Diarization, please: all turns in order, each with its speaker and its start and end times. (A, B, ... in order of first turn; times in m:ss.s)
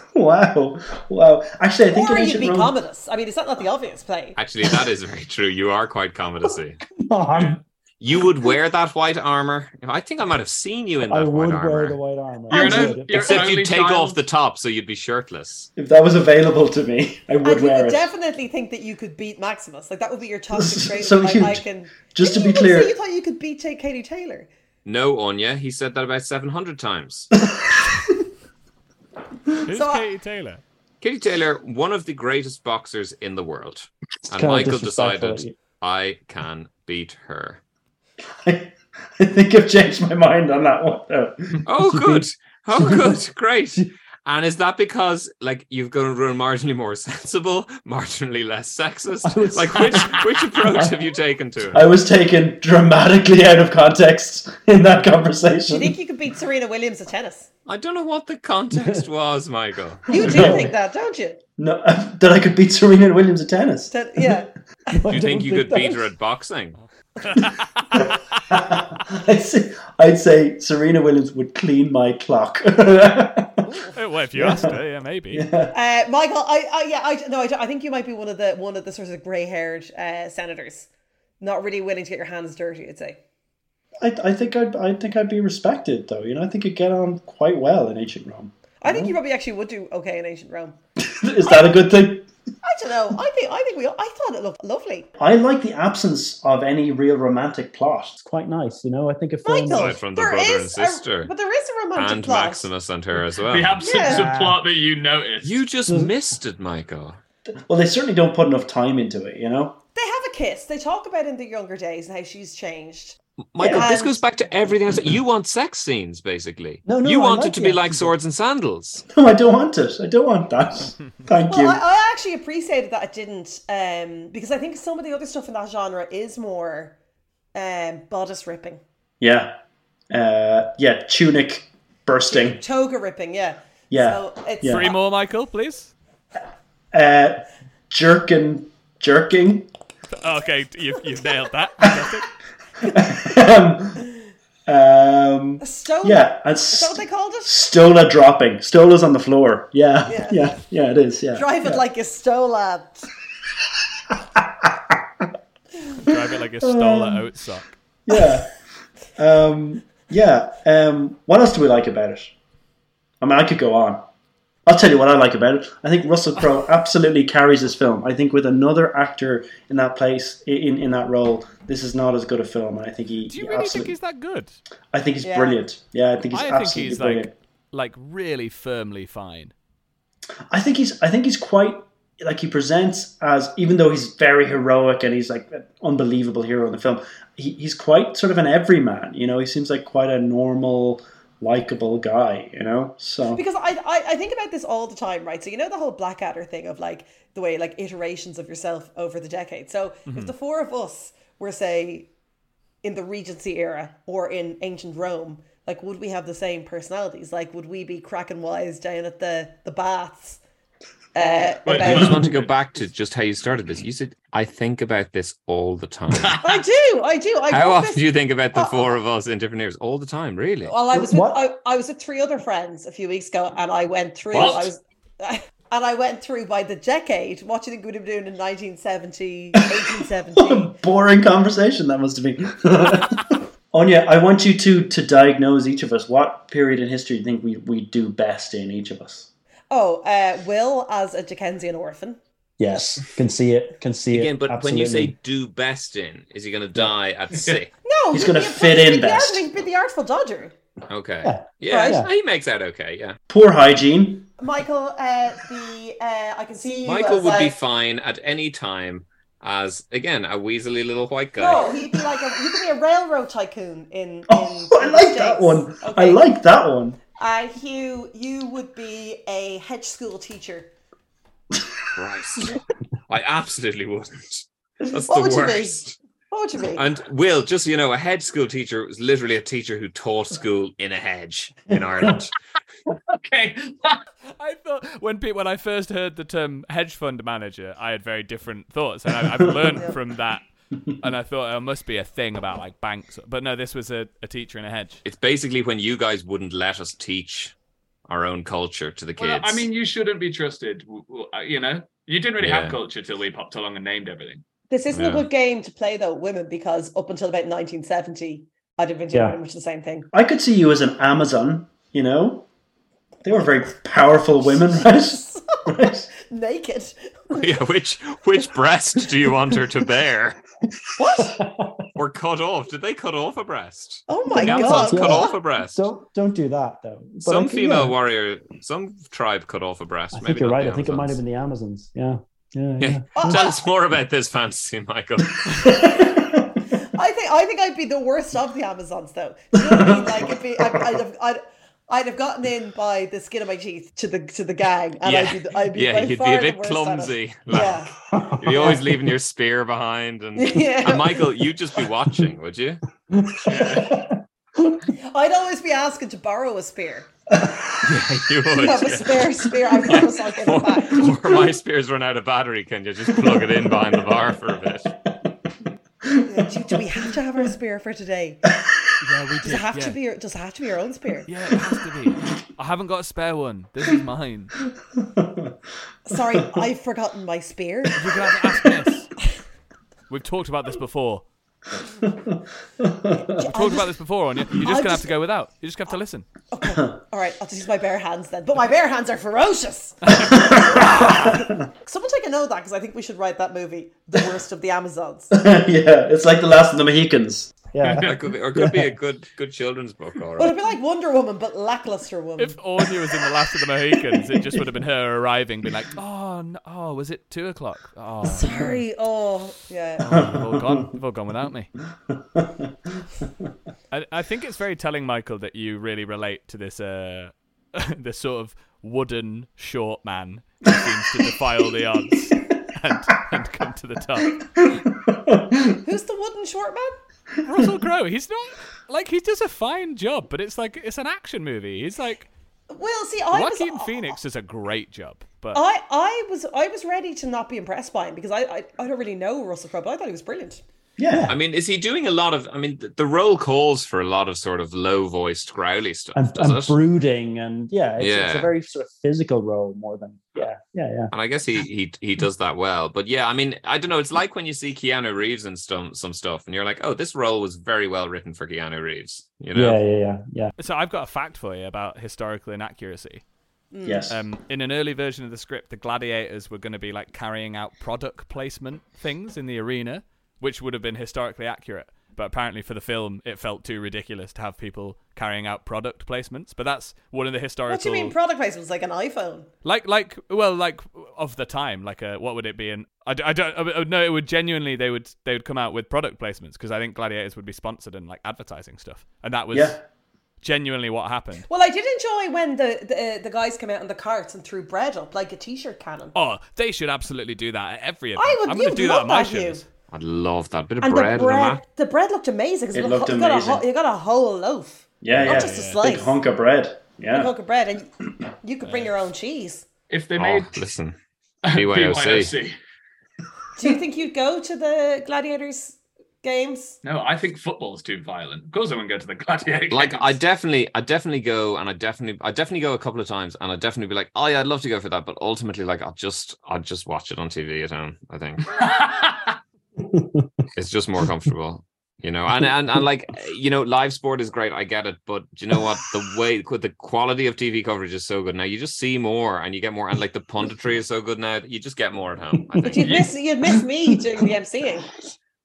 0:00.1-0:02.8 A
0:01.9-0:04.4 B
0:04.4-0:06.8 C
0:07.0-0:07.6 D
0:07.3-0:07.6 E
0:08.0-0:12.0 C
0:11.0-0:13.4 D
0:12.5-0:14.2 E
0:12.5-0:15.7 C
0:15.8-0:18.1 A
0:17.4-0:24.5 B
0:20.5-0:22.9 A
0:24.8-0:27.3 C
0:29.6-0:30.6 F
0:29.7-0:30.1 B
0:31.0-0:37.6 C
0:34.3-0:35.6 D
0:38.4-0:41.6 A
0:41.7-0:51.9 C
0:41.8-0:43.2 D
0:49.2-0:50.2 D
0:49.7-0:50.7 E
0:51.7-0:56.0 A
0:55.7-0:57.5 B
0:57.7-1:00.6 C
0:58.7-0:59.0 D
1:00.1-1:01.4 B
1:00.1-1:00.7 A
1:01.6-1:04.4 A
1:03.9-1:05.0 B
1:05.0-1:06.0 D
1:05.1-1:06.8 C
1:07.2-1:08.1 F
1:08.5-1:13.7 A
1:13.9-1:15.5 F
1:14.3-1:14.8 A
1:15.3-1:15.7 A
1:15.7-1:20.9 B
1:21.4-1:23.2 B
1:24.0-1:29.1 A
1:28.8-1:30.8 B
1:31.0-1:32.3 A
1:31.4-1:31.8 B
1:32.6-1:35.1 B
1:35.2-1:38.2 A
1:38.2-1:40.0 D
1:39.4-1:42.7 B
1:39.8-1:41.3 C
1:42.0-1:44.3 C
1:43.4-1:45.6 E
1:43.8-1:44.3 B
1:45.4-1:47.2 C
1:47.6-1:49.8 A
1:50.0-1:53.2 B
1:53.5-1:59.0 C
1:53.6-1:53.9 A
1:53.7-1:54.2 B
1:56.8-1:58.1 D
1:59.1-2:01.8 A
2:01.5-2:07.0 B
2:07.5-2:08.8 B
2:09.2-2:09.6 A
2:10.1-2:12.6 A
2:12.3-2:14.9 B
2:13.9-2:14.9 A
2:14.6-2:15.9 F
2:16.9-2:19.7 A
2:20.1-2:22.3 F
2:22.8-2:24.0 A
2:24.7-2:31.8 A
2:25.6-2:27.5 B
2:30.1-2:30.5 B
2:31.3-2:33.1 B
2:34.1-2:35.0 A
2:36.0-2:37.8 F
2:36.6-2:37.3 A
2:38.1-2:38.5 A
2:39.2-2:42.3 A
2:43.2-2:44.1 A
2:44.7-2:54.0 A
2:53.3-2:54.6 F
2:54.9-2:57.3 A
2:55.2-2:55.6 B
2:56.3-2:59.5 F
3:00.5-3:13.4 A
3:13.3-3:22.1 B
3:22.8-3:30.4 B
3:31.2-3:32.2 B
3:31.6-3:32.5 E
3:31.7-3:36.4 C
3:36.2-3:36.6 E
3:36.4-3:38.8 B
3:37.5-3:40.8 C
3:40.7-3:50.7 B
3:40.9-3:41.4 D
3:44.3-3:44.7 E
3:50.4-3:59.3 A
3:59.7-4:02.2 B
4:02.6-4:05.2 D
4:04.1-4:07.7 C
4:07.8-4:10.5 B
4:08.1-4:09.5 A
4:10.9-4:13.2 C
4:11.2-4:12.1 D
4:11.7-4:12.0 B
4:13.3-4:14.3 A
4:14.4-4:17.6 B
4:16.8-4:21.8 C
4:21.4-4:26.2 B
4:24.3-4:27.0 A
4:27.2-4:30.7 B
4:32.0-4:36.0 C
4:35.1-4:36.8 B
4:36.7-4:42.3 C
4:42.9-4:44.0 E
4:44.4-4:50.4 F
4:49.3-4:49.7 A
4:51.0-4:55.0 F
4:55.0-4:57.5 C
4:58.1-4:59.7 C
4:59.2-5:04.4 E
5:02.4-5:02.8 C
5:04.7-5:10.1 B
5:04.9-5:05.3 C
5:09.1-5:09.4 D
5:10.1-5:12.5 A
5:13.2-5:16.1 A
5:14.5-5:15.6 B
5:16.2-5:17.5 B
5:17.3-5:20.4 C
5:21.0-5:21.4 B
5:21.2-5:21.9 D
5:22.0-5:25.8 C
5:24.1-5:25.4 B
5:24.3-5:28.0 D
5:27.2-5:31.2 C
5:30.1-5:33.3 D
5:32.8-5:35.8 C
5:33.2-5:33.6 B
5:35.5-5:36.6 A
5:36.8-5:48.0 B
5:39.6-5:41.0 A
5:45.0-5:52.8 C
5:48.1-5:48.8 D
5:50.4-5:51.3 B
5:53.2-5:54.1 D
5:53.4-5:53.9 E
5:53.5-5:53.9 A
5:54.9-5:57.1 B
5:57.3-5:57.8 A
5:57.8-6:04.9 C
5:58.5-6:01.4 B
6:03.3-6:03.7 A
6:06.0-6:06.9 A
6:06.2-6:08.4 B
6:09.0-6:10.0 F
6:09.4-6:11.3 B
6:11.3-6:14.6 F
6:15.0-6:15.5 A
6:16.1-6:18.1 B
6:18.0-6:19.1 F
6:20.1-6:21.2 F
6:22.0-6:23.3 A
6:23.2-6:23.9 B
6:23.5-6:26.3 F
6:24.6-6:25.1 B
6:26.5-6:35.3 B
6:30.1-6:30.9 F
6:30.2-6:31.5 A
6:35.3-6:37.7 A
6:37.7-6:38.9 D
6:37.8-6:38.2 E
6:38.0-6:40.6 C
6:40.4-6:42.6 B
6:42.4-6:48.8 F
6:43.9-6:44.6 A
6:48.2-6:50.2 B
6:50.0-6:51.7 F
6:50.1-6:50.9 A
6:52.1-6:53.0 A
6:53.9-7:04.5 F
7:04.8-7:05.8 A
7:05.8-7:07.0 B
7:07.4-7:12.3 F
7:12.7-7:14.2 B
7:13.3-7:15.6 F
7:15.5-7:20.6 B
7:21.0-7:21.3 A
7:21.1-7:21.4 D
7:21.3-7:26.8 C
7:26.2-7:31.1 D
7:28.0-7:28.5 C
7:31.1-7:39.8 C
7:39.5-7:40.5 D
7:40.6-7:43.2 F
7:43.7-7:44.1 B
7:43.8-7:44.2 A
7:44.1-7:58.2 F
7:57.7-7:59.5 B
7:59.6-8:09.8 F
8:09.5-8:09.8 A
8:10.4-8:11.5 F
8:11.5-8:16.2 B
8:16.2-8:19.7 F
8:18.2-8:19.6 B
8:19.9-8:21.6 C
8:20.8-8:26.1 B
8:22.7-8:23.6 A
8:25.0-8:27.3 A
8:25.1-8:25.8 F
8:27.1-8:27.9 B
8:28.4-8:29.7 B
8:29.9-8:30.6 E
8:30.2-8:31.0 C
8:31.4-8:32.6 E
8:31.5-8:32.3 C
8:33.6-8:36.8 B
8:36.8-8:40.2 E
8:39.7-8:48.6 C
8:48.6-8:49.4 E
8:50.6-9:03.1 C
9:02.6-9:04.9 B